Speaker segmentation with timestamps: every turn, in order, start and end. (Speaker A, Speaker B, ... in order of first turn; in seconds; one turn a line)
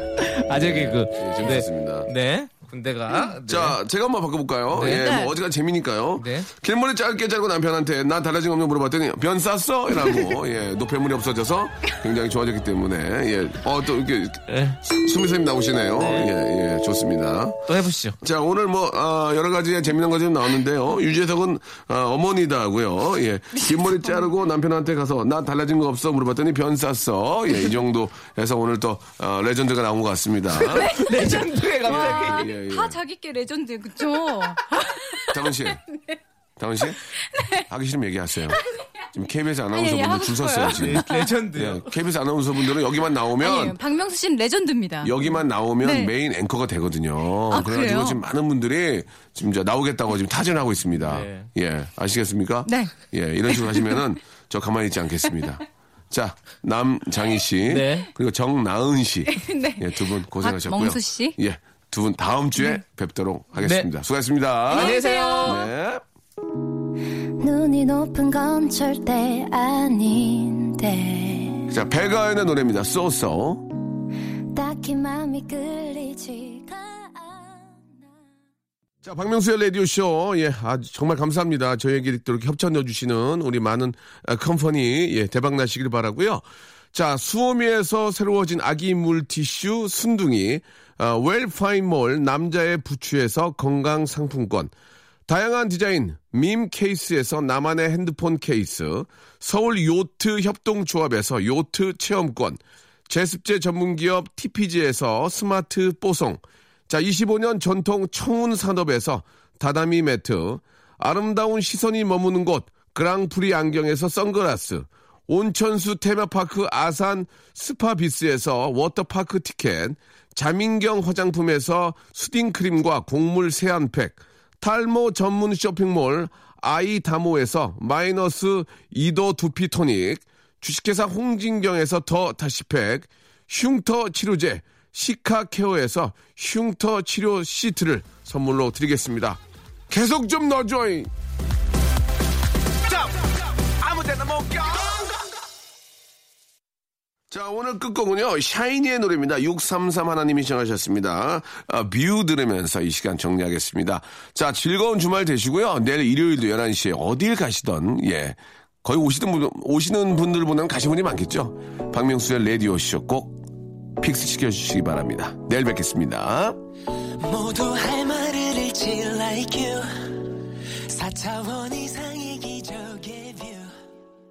Speaker A: 0.2-3.8
Speaker B: 0.5-2.1
Speaker B: 3.5-17.6
Speaker A: 4.7-5.2
Speaker C: 4.9-5.3
Speaker A: 6.2-6.5
Speaker A: 14.5-14.8
Speaker A: 16.0-16.3
Speaker A: 17.7-18.2
Speaker B: 18.2-31.0
Speaker A: 30.6-32.5
Speaker C: 30.7-31.1
Speaker C: 31.9-36.2
Speaker B: 31.9-33.0
Speaker B: 35.3-35.8
Speaker B: 36.6-37.0
Speaker C: 37.3-37.6
Speaker B: 37.7-38.6
Speaker B: 39.1-43.8
Speaker C: 39.7-41.3
Speaker A: 40.6-41.9
Speaker C: 43.4-46.1
Speaker B: 45.0-66.0
Speaker C: 47.5-48.2
Speaker A: 51.0-51.5
Speaker C: 52.7-52.9
Speaker C: 53.5-54.0
Speaker A: 57.7-58.1
Speaker C: 59.3-61.4
Speaker A: 63.6-63.9
Speaker A: 64.7-65.6
Speaker C: 64.7-65.6
Speaker D: 67.4-71.7
Speaker B: 71.7-73.7
Speaker D: 74.5-78.1
Speaker B: 79.0-94.7
Speaker B: 95.3-141.1
Speaker B: 143.6-145.2
Speaker B: 147.3-163.5
Speaker B: 164.0-166.6
Speaker E: 167.2-170.3
Speaker E: 170.8-173.7